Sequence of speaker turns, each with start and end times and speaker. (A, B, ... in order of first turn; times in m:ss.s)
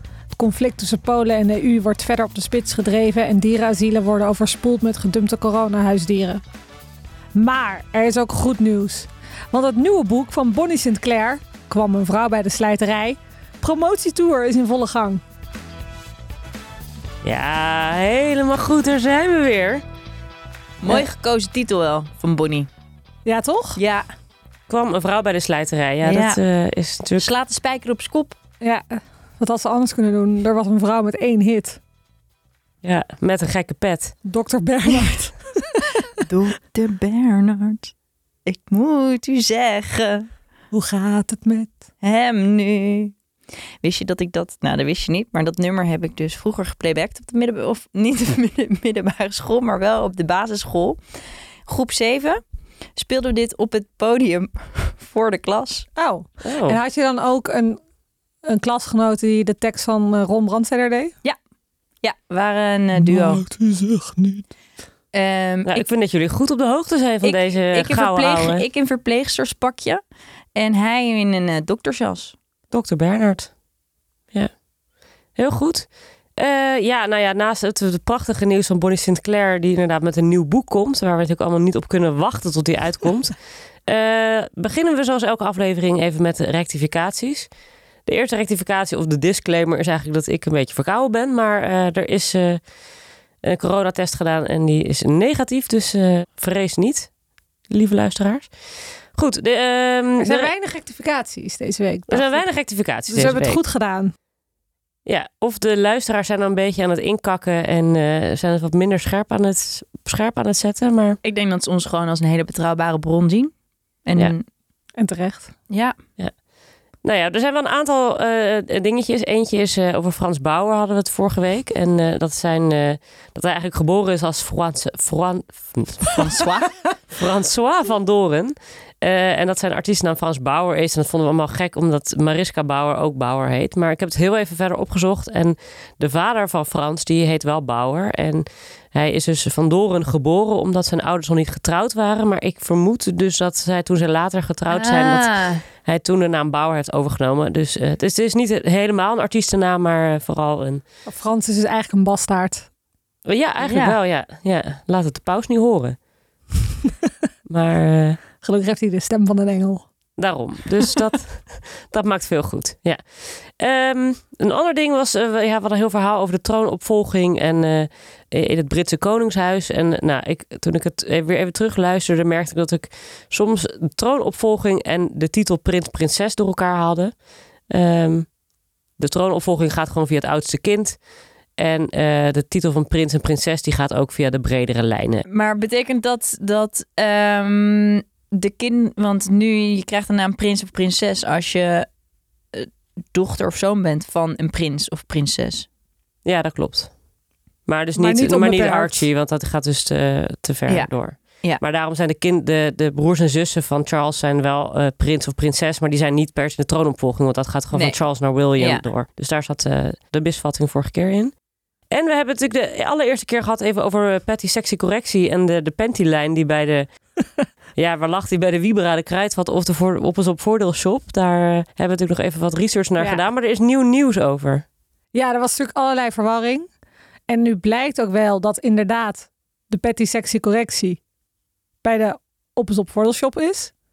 0:00.4-0:06.4 A
0:07.3-0:15.2 A
0:17.2-0:19.8 B
0:20.8-0:22.7 C
0:23.2-0:23.8 A
0:23.8-0:24.1 C
0:24.7-0:27.3 B
0:26.0-0:26.4 C
0:27.2-0:28.4 C
0:28.6-0:31.8 A
0:32.8-0:34.1 B
0:34.2-0:36.2 A
0:36.2-0:37.9 C
0:38.5-0:40.3 C
0:40.7-0:41.8 A
0:42.0-0:43.2 C
0:43.8-0:51.0 C
0:51.7-0:52.4 C
0:53.0-0:55.9 C
0:56.0-0:57.8 A
0:56.4-0:56.8 B
0:58.4-1:01.2 A
1:02.0-1:03.4 C
1:03.0-1:04.5 A
1:05.1-1:05.8 C
1:05.7-1:08.6 B
1:07.2-1:10.0 C
1:10.6-1:12.4 C
1:12.7-1:13.5 B
1:15.4-1:23.3 B
1:23.9-1:27.5 B
1:28.1-1:32.6 B
1:33.4-1:37.1 B
1:37.7-1:38.5 B
1:39.1-1:40.5 B
1:40.2-1:42.5 A
1:42.1-1:43.6 B
1:43.1-1:44.1 A
1:45.1-1:51.2 B
1:51.2-1:53.5 C
1:54.1-1:54.4 C
1:55.0-1:55.6 A
1:55.7-1:56.0 C
1:57.0-2:06.4 B
2:06.1-2:06.7 C
2:07.1-2:30.8 B
2:24.7-2:25.6 C
2:31.1-2:32.7 A
2:33.3-2:36.0 B
2:33.6-2:34.0 C
2:37.5-2:38.2 B
2:38.4-2:39.9 A
2:40.2-2:57.2 B
2:57.7-2:58.3 B
2:59.0-3:01.0 B
3:01.6-3:05.2 B
3:05.3-3:11.9 C
3:12.5-3:15.7 C
3:16.2-3:16.9 B
3:17.7-3:31.3 B
3:18.0-3:19.1 A
3:20.7-3:21.6 C
3:27.7-3:28.0 C
3:28.6-3:28.9 C
3:31.9-3:36.9 B
3:37.8-3:44.6 B
3:45.1-3:46.7 A
3:47.3-3:51.0 A
3:51.8-3:53.7 A